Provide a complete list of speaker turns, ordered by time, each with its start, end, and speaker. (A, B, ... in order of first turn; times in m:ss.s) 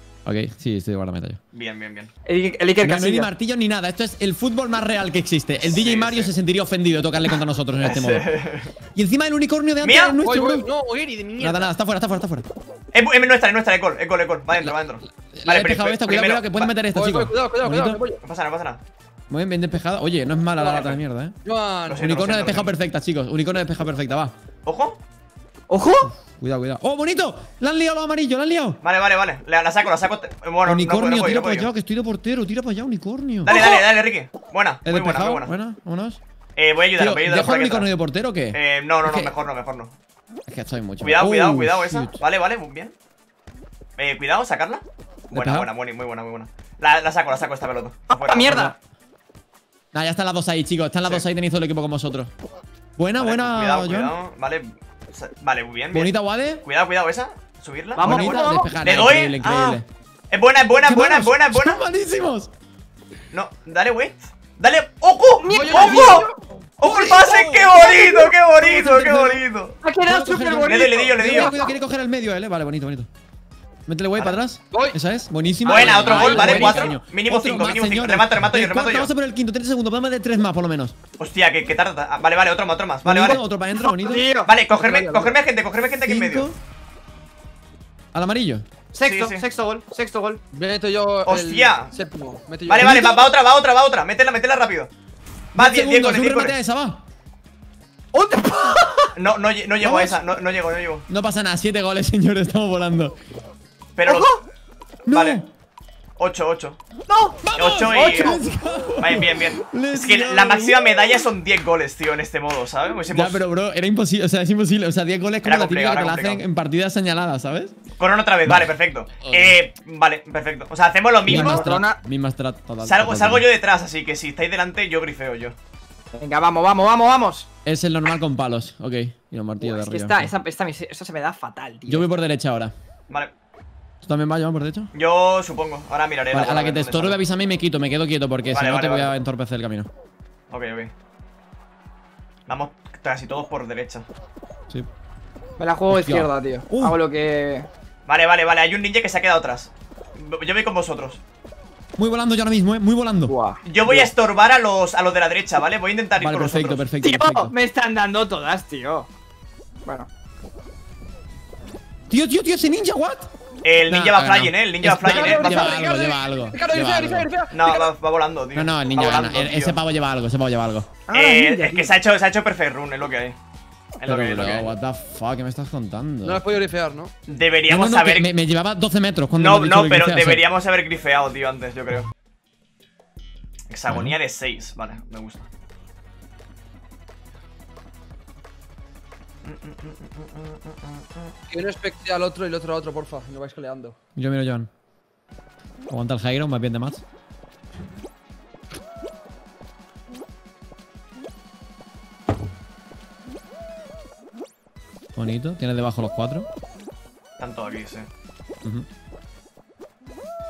0:00.2-0:01.4 A
0:01.5-0:02.1 B
0:02.3-0:03.3 C
0:02.8-0:08.3 A
0:05.6-0:06.3 B
0:07.8-0:08.7 B
0:09.0-0:10.7 A
0:09.8-0:10.2 B
0:10.2-0:11.7 D
0:11.4-0:12.5 A
0:12.9-0:16.7 B
0:15.4-0:18.0 A
0:16.9-0:18.2 D
0:18.2-0:18.8 B
0:19.3-0:21.4 A
0:20.6-0:21.0 B
0:21.4-0:22.1 D
0:21.9-0:22.7 B
0:22.0-0:24.3 A
0:24.6-0:25.0 B
0:25.7-0:26.1 C
0:26.2-0:28.8 A
0:28.8-0:31.7 B
0:30.6-0:33.6 A
0:33.4-0:35.5 B
0:33.5-0:33.8 C
0:34.8-0:36.2 A
0:36.6-0:37.9 B
0:37.0-0:39.3 A
0:38.5-0:39.9 B
0:40.5-0:42.1 A
0:41.0-0:42.9 B
0:44.0-0:48.6 B
0:45.3-0:45.7 A
0:48.1-0:48.7 C
0:48.5-0:48.8 A
0:49.9-0:52.3 A
0:53.0-0:54.1 A
0:53.2-0:56.1 B
0:55.9-0:56.6 A
0:56.6-1:01.8 B
0:58.0-0:58.8 C
0:58.0-0:59.9 A
1:00.8-1:02.5 A
1:03.3-1:06.3 B
1:05.4-1:06.3 C
1:05.5-1:06.4 D
1:06.8-1:09.8 B
1:06.8-1:08.3 C
1:08.7-1:09.4 D
1:09.8-1:11.7 C
1:10.0-1:13.1 A
1:10.7-1:11.6 B
1:13.9-1:21.0 A
1:14.7-1:15.0 D
1:15.6-1:19.1 B
1:15.7-1:16.9 D
1:16.4-1:16.8 C
1:21.2-1:23.4 B
1:23.0-1:24.3 A
1:23.8-1:24.5 C
1:24.5-1:26.5 B
1:24.8-1:25.3 D
1:26.0-1:26.6 A
1:28.1-1:28.6 A
1:28.9-1:30.4 C
1:29.0-1:29.4 B
1:30.5-1:33.1 D
1:31.2-1:31.9 B
1:32.6-1:34.9 B
1:32.8-1:33.3 A
1:35.5-1:36.6 B
1:35.5-1:37.0 A
1:38.1-1:39.1 C
1:39.2-1:41.1 B
1:39.8-1:40.2 A
1:41.1-1:43.2 A
1:44.0-1:44.3 B
1:44.0-1:44.4 C
1:45.1-1:45.5 A
1:45.1-1:45.4 B
1:46.2-1:46.8 B
1:47.1-1:48.4 C
1:47.4-1:51.0 A
1:47.5-1:48.4 B
1:49.0-1:53.4 B
1:53.1-1:57.8 A
1:55.4-1:56.4 B
1:58.0-2:01.8 B
1:58.4-1:58.7 A
1:59.2-1:59.6 A
2:01.2-2:02.0 C
2:01.2-2:03.5 A
2:02.8-2:05.6 B
2:06.1-2:07.5 C
2:07.6-2:10.3 A
2:09.6-2:12.1 C
2:11.9-2:12.7 A
2:14.0-2:14.9 A
2:14.9-2:17.2 B
2:16.3-2:19.9 A
2:18.5-2:19.2 B
2:20.5-2:20.9 B
2:22.5-2:24.1 B
2:25.6-2:27.7 C
2:25.9-2:27.0 A
2:28.1-2:31.2 B
2:32.0-2:33.3 A
2:33.3-2:33.6 C
2:33.6-2:36.8 B
2:36.2-2:37.5 A
2:37.0-2:39.1 C
2:42.1-2:43.3 A
2:43.6-2:45.9 B
2:43.9-2:47.3 A
2:45.0-2:47.9 D
2:47.5-2:49.8 B
2:48.6-2:50.9 A
2:51.1-2:51.9 C
2:51.1-2:53.4 B
2:54.0-2:54.7 B
2:54.0-2:56.5 A
2:56.2-2:57.1 D
2:57.3-2:58.3 B
2:57.7-3:00.5 A
2:59.4-3:02.1 B
3:03.7-3:05.5 B
3:03.9-3:04.2 A
3:09.4-3:11.3 B
3:11.5-3:14.0 D
3:14.2-3:14.7 A
3:15.9-3:17.0 A
3:25.2-3:26.5 A
3:27.4-3:28.1 B